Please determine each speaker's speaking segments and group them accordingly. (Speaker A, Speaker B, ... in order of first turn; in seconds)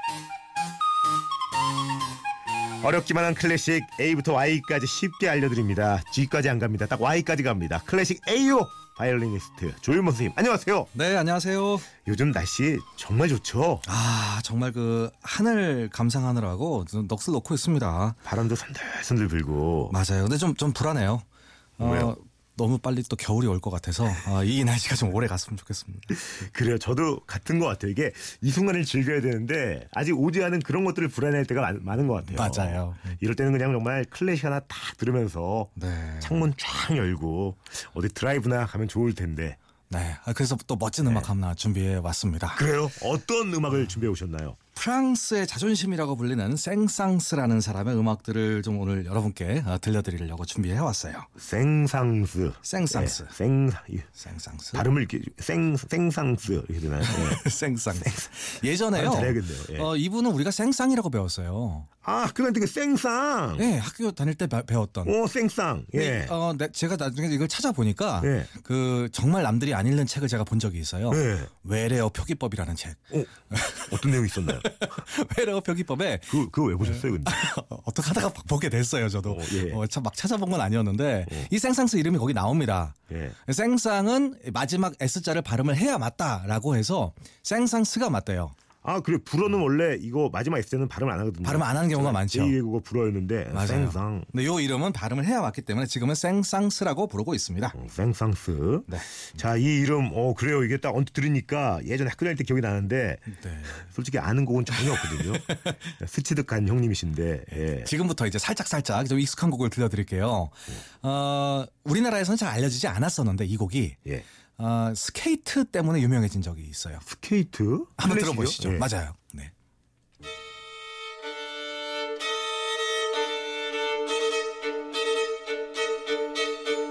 Speaker A: 2.8-10.9, 12.0-13.8, 18.2-19.9, 21.8-22.1, 26.1-39.6, 41.0-41.3, 42.5-44.6, 51.4-54.1, 54.7-57.4, 58.0-58.2, 58.9-59.9, 62.0-63.7, 65.0-66.3, 68.2-68.5, 71.1-71.5, 73.9-74.7, 76.3-77.4, 79.2-79.8, 83.1-83.3, 88.8-94.3, 97.7-107.9, 117.0-118.9
Speaker B: 10.9-11.9, 13.8-18.2, 19.9-21.2, 21.8-26.2, 32.3-33.1, 35.8-36.5, 39.9-42.6, 44.7-51.3, 52.6-53.3, 54.1-54.9, 57.0-61.9, 63.6-65.2, 65.9-88.5, 91.4-92.6, 93.5-97.8, 98.9-99.2, 103.3-103.8, 104.8-105.7, 107.8-114.0, 114.6-117.0, 118.0-119.5